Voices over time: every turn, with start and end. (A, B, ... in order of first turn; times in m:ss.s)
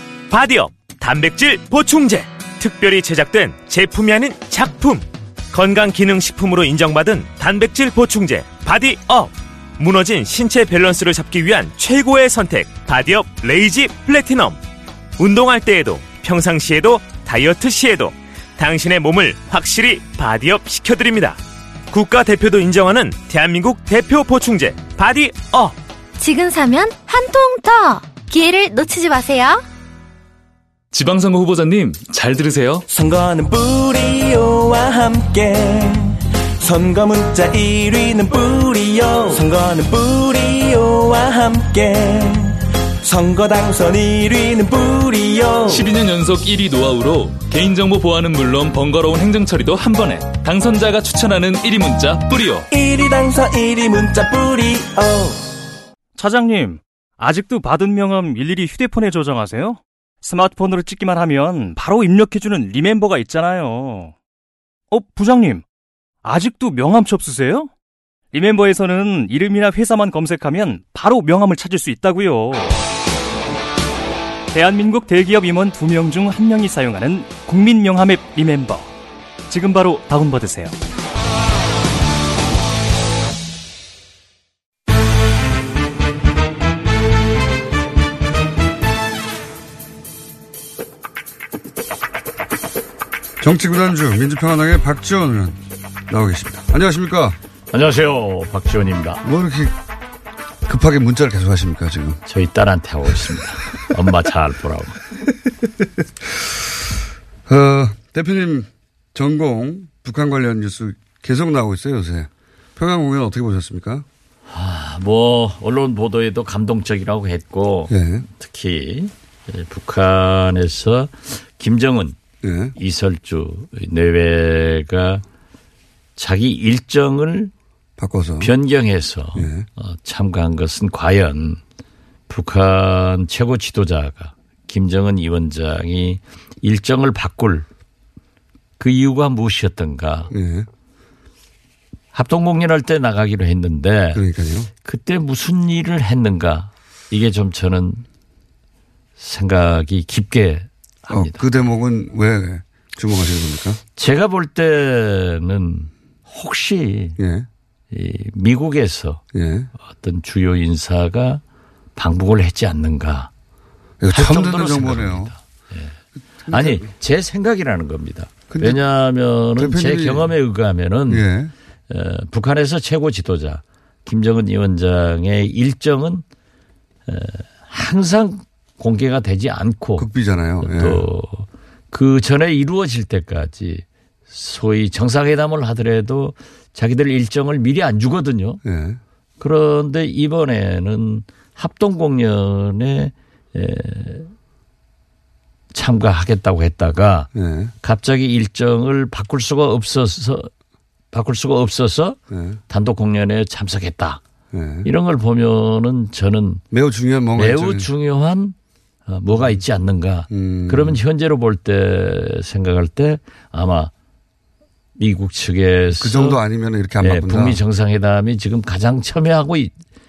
0:00.3-0:14.6 A
0:15.2-0:21.4 A
0:21.9-0:25.8 A
0:26.2-0:29.6 B
0:30.9-0:32.9 C
0:32.9-0:45.9 D
0:45.7-0:52.7 C
0:52.7-0:55.5 D
0:56.2-1:04.1 E
1:04.9-1:05.6 E
1:06.2-1:07.7 E
1:08.3-1:12.8 E
1:14.5-1:18.9 E
1:19.5-1:20.8 E
1:33.4-1:37.4 F
1:37.7-1:39.2 G
1:39.2-1:39.8 F
1:40.6-1:42.2 F
1:42.3-1:45.0 G
1:47.5-1:54.1 F
1:54.5-2:02.2 G
1:57.9-1:58.3 F
2:02.4-2:02.8 F
2:02.8-2:05.2 G
2:06.2-2:07.5 G
2:08.0-2:08.5 F
2:08.4-2:11.6 G
2:09.4-2:09.7 F
2:12.3-2:17.6 G
2:18.8-2:20.3 G
2:20.3-2:20.7 F
2:22.1-2:24.2 G
2:24.1-2:24.7 F
2:24.8-2:28.0 G
2:29.2-2:31.4 G
2:31.1-2:33.8 F
2:34.0-2:37.2 G
2:37.2-2:37.5 F
2:37.9-2:39.2 G
2:39.3-2:39.7 F
2:39.8-2:41.4 G
2:42.0-2:43.3 G
2:44.0-2:45.3 F
2:44.1-2:46.0 G
2:46.5-2:46.9 F
2:46.5-2:51.3 G
2:48.5-2:48.8 F
2:49.6-2:50.3 F
2:51.1-2:51.5 F
2:51.9-2:56.2 G
2:57.1-3:00.1 G
3:00.0-3:01.0 F
3:00.6-3:08.6 G
3:08.6-3:09.0 F
3:09.4-3:14.3 G
3:15.7-3:17.3 G
3:17.3-3:17.7 F
3:17.8-3:20.5 G
3:21.1-3:22.2 G
3:22.3-3:22.6 F
3:22.7-3:24.2 G
3:24.5-3:24.9 F
3:24.8-3:26.6 G
3:26.7-3:27.9 F
3:27.4-3:28.6 G
3:29.1-3:33.9 G
3:30.3-3:31.0 F
3:35.0-3:36.4 G
3:36.0-3:37.6 F
3:37.0-3:39.7 G